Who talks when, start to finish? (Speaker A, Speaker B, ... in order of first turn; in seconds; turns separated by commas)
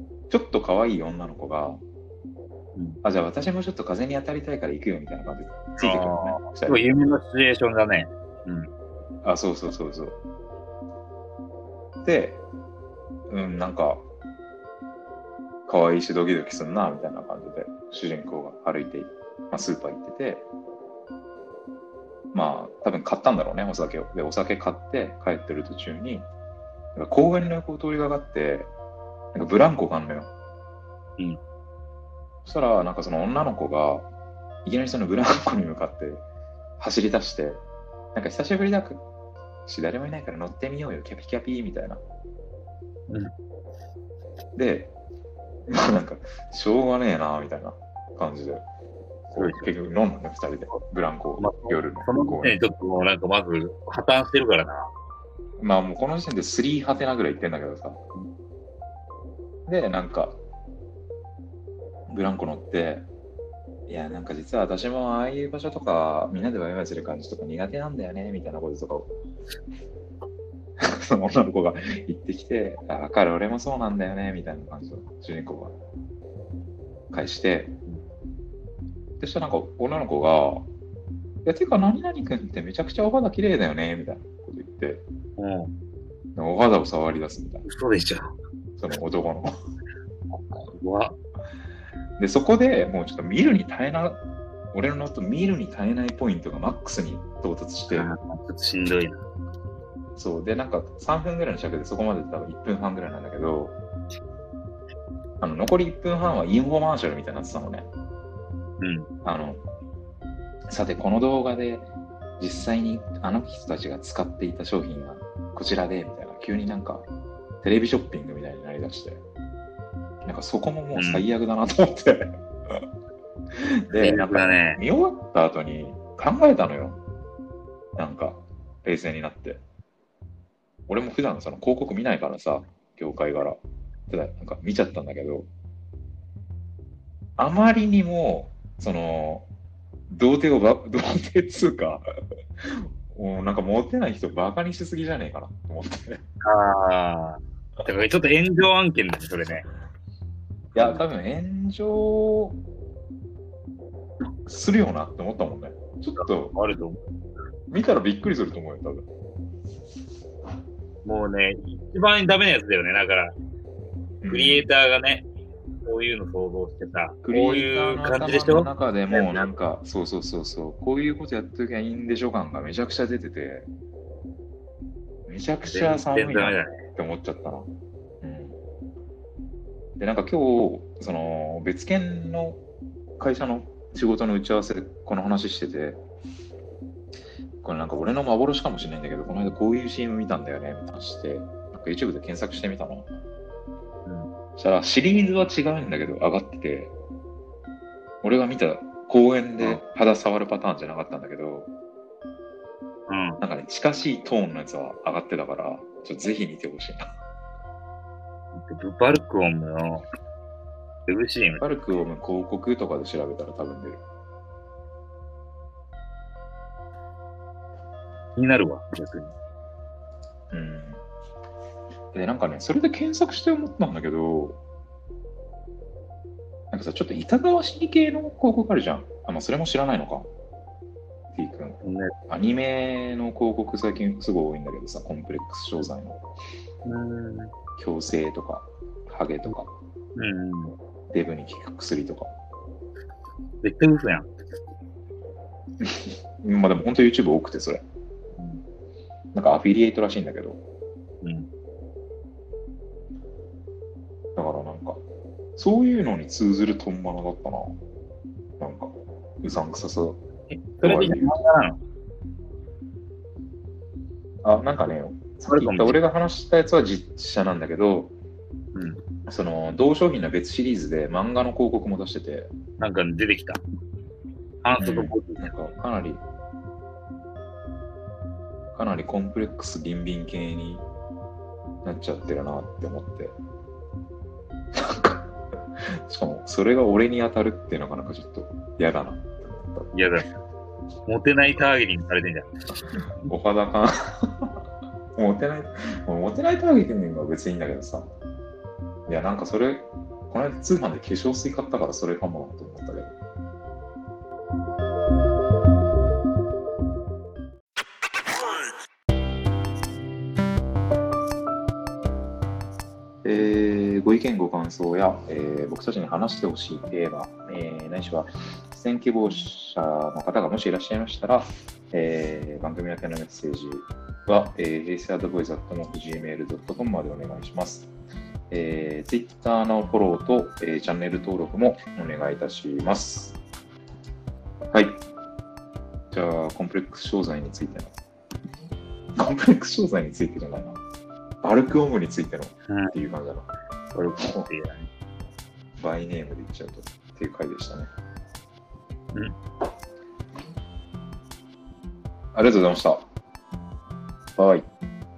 Speaker A: 0.3-1.8, Speaker B: 2.8-3.0, Speaker A: 3.0-6.8, Speaker B: 5.8-8.7, Speaker A: 9.2-10.2, Speaker A: 12.0-12.4, Speaker A: 13.3-14.0, Speaker A: 15.7-20.5, Speaker A: 22.3-26.3, Speaker A: 26.9-28.7, Speaker A: 29.3-30.3, Speaker A: 32.5-34.1, Speaker A: 34.6-36.2, Speaker A: 36.8-37.6, Speaker A: 38.1-39.0, Speaker A: 39.7-42.0, Speaker A: 44.6-44.9, Speaker A: 45.7-48.6, Speaker B: 49.3-49.7, Speaker A: 49.4-52.6, Speaker B: 51.4-54.9, Speaker A: 55.6-58.0, Speaker A: 59.7-60.4, Speaker A: 62.1-63.0, Speaker A: 63.9-69.1, Speaker A: 70.8-75.7, Speaker A: 77.1-77.7, Speaker A: 79.2-80.7, Speaker A: 81.5-85.0, Speaker B: 85.4-85.7, Speaker A: 86.4-87.7, Speaker B: 87.7-88.4, Speaker A: 88.8-89.5, Speaker B: 90.3-91.2, Speaker A: 92.2-94.2, Speaker A: 94.7-98.1, Speaker B: 97.9-99.2, Speaker A: 100.2-103.8, Speaker A: 105.4-107.9, Speaker B: 108.8-109.1, Speaker A: 109.2-109.6, Speaker A: 110.7-111.9, Speaker A: 112.4-117.0, Speaker A: 117.6-119.2, Speaker A: 120.2-122.4, Speaker B: 121.0-121.3, Speaker A: 123.5-127.0, Speaker B: 123.9-124.8, Speaker A: 128.0-129.6, Speaker A: 130.9-135.5, Speaker A: 137.4-139.5, Speaker A: 140.1-142.1, Speaker A: 142.6-146.2, Speaker B: 146.4-149.7, Speaker A: 150.7-152.6, Speaker B: 150.8-151.0, Speaker A: 154.5-156.6, Speaker B: 156.2-157.1, Speaker A: 157.7-159.1, Speaker B: 161.0-163.3, Speaker A: 164.2-164.7, Speaker B: 164.3-165.3, Speaker B: 165.8-169.5, Speaker A: 167.2-173.7, Speaker A: 175.3-177.7, Speaker B: 175.7-176.8, Speaker A: 178.2-178.6, Speaker A: 180.0-182.6, Speaker A: 183.2-186.0, Speaker A: 187.6-193.1, Speaker A: 194.6-196.9, Speaker A: 198.2-201.7, Speaker B: 203.1-203.4, Speaker A: 203.4-207.1, Speaker B: 208.5-210.1, Speaker B: 211.1-211.6, Speaker A: 211.6-214.0, Speaker B: 218.4-219.3, Speaker A: 220.5-221.0, Speaker A: 222.1-224.6, Speaker A: 226.7-230.3, Speaker A: 231.3-236.2, Speaker B: 231.8-232.1, Speaker B: 236.8-237.5, Speaker A: 237.8-239.7, Speaker B: 240.2-240.8, Speaker A: 241.1-242.3, Speaker B: 243.6-244.6, Speaker A: 245.8-247.8, Speaker B: 248.4-248.6, Speaker A: 249.3-250.6, Speaker B: 251.2-251.5, Speaker A: 254.4-255.0, Speaker A: 255.6-257.8, Speaker A: 258.6-260.2, Speaker B: 260.5-261.8, Speaker A: 260.8-261.4, Speaker A: 264.4-268.1, Speaker B: 265.5-266.0, Speaker A: 269.3-272.5, Speaker B: 272.8-273.6, Speaker B: 274.6-275.5, Speaker A: 274.8-276.2, Speaker A: 278.7-280.9, Speaker A: 281.8-283.4, Speaker A: 284.7-285.3, Speaker A: 285.8-289.9, Speaker B: 289.9-290.3, Speaker B: 291.1-293.1, Speaker A: 293.2-294.6, Speaker A: 295.2-298.1, Speaker A: 299.1-303.1, Speaker A: 313.2-327.9, Speaker A: 328.5-333.4, Speaker A: 334.7-335.0, Speaker A: 336.1-337.9, Speaker A: 339.2-340.8, Speaker A: 341.4-343.5, Speaker B: 342.7-342.9, Speaker B: 343.9-344.9, Speaker A: 344.2-344.5, Speaker A: 345.8-347.9, Speaker A: 352.3-353.1, Speaker A: 354.4-354.7